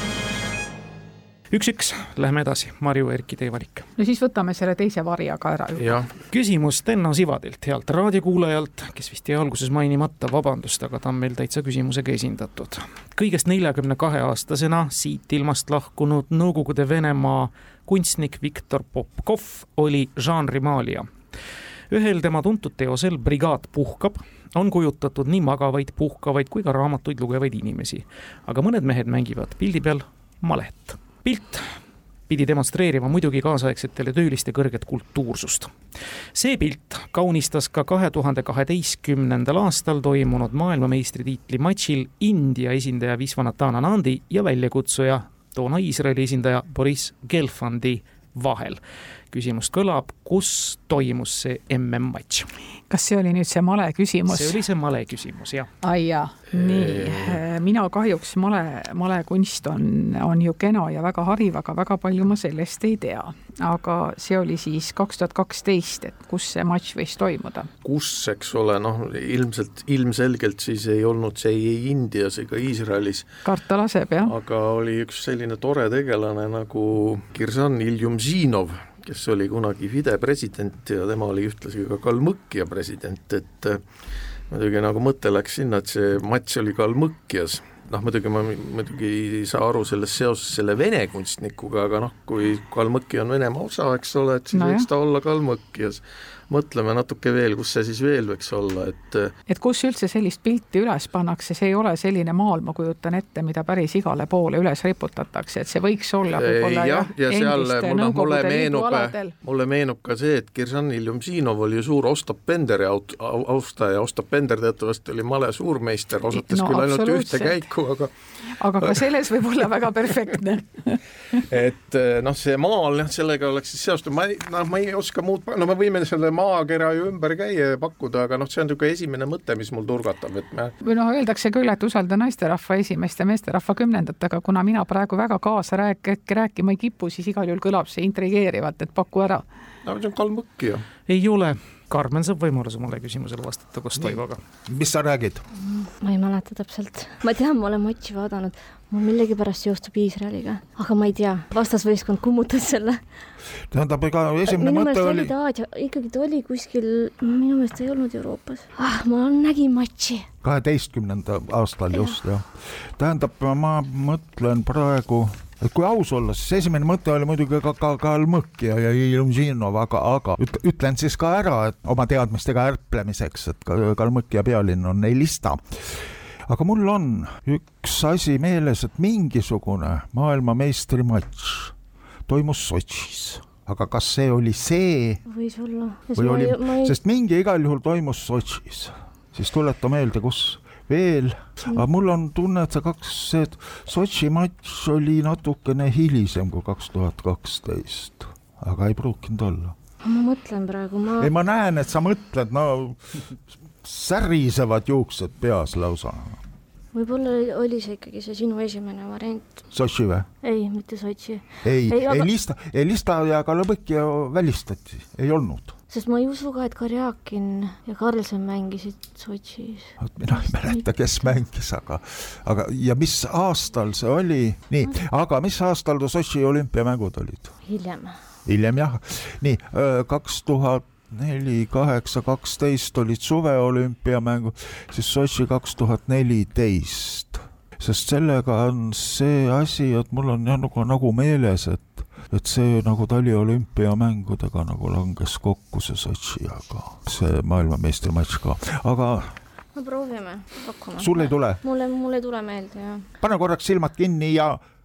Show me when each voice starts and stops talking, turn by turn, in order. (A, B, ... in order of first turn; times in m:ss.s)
0:01.5-0:03.9 A
0:04.0-0:06.1 B
0:05.8-0:06.1 C
0:06.3-0:21.1 A
0:21.9-0:31.7 A
0:32.3-0:35.8 A
0:36.3-0:48.8 A
0:49.3-0:52.5 A
0:52.9-0:54.6 B
0:54.3-0:55.7 A
0:55.8-1:07.7 B
0:56.5-0:57.4 C
1:07.8-1:13.3 C
1:13.4-1:14.3 B
1:14.2-1:23.8 C
1:24.5-1:39.3 C
1:34.5-1:34.9 B
1:39.5-1:49.3 B
1:46.3-1:58.1 C
1:56.3-1:57.7 B
1:58.6-2:01.0 B
1:58.8-1:59.0 C
2:01.3-2:10.7 C
2:10.8-2:19.5 B
2:19.8-2:20.8 C
2:21.1-2:24.4 A
2:24.7-2:25.4 D
2:25.6-2:33.0 E
2:33.7-2:35.4 D
2:34.5-2:40.3 E
2:40.4-3:01.8 D
3:02.3-3:05.2 D
3:05.3-3:07.0 E
3:06.2-3:19.8 D
3:20.0-3:21.3 E
3:21.2-3:26.4 D
3:26.9-3:29.6 E
3:29.7-3:30.3 D
3:30.4-3:32.3 E
3:31.6-3:35.8 D
3:35.9-3:40.8 E
3:40.0-3:47.5 D
3:47.7-3:48.2 E
3:48.5-4:09.4 D
4:09.8-4:13.1 E
4:11.0-4:11.6 D
4:13.2-4:14.6 D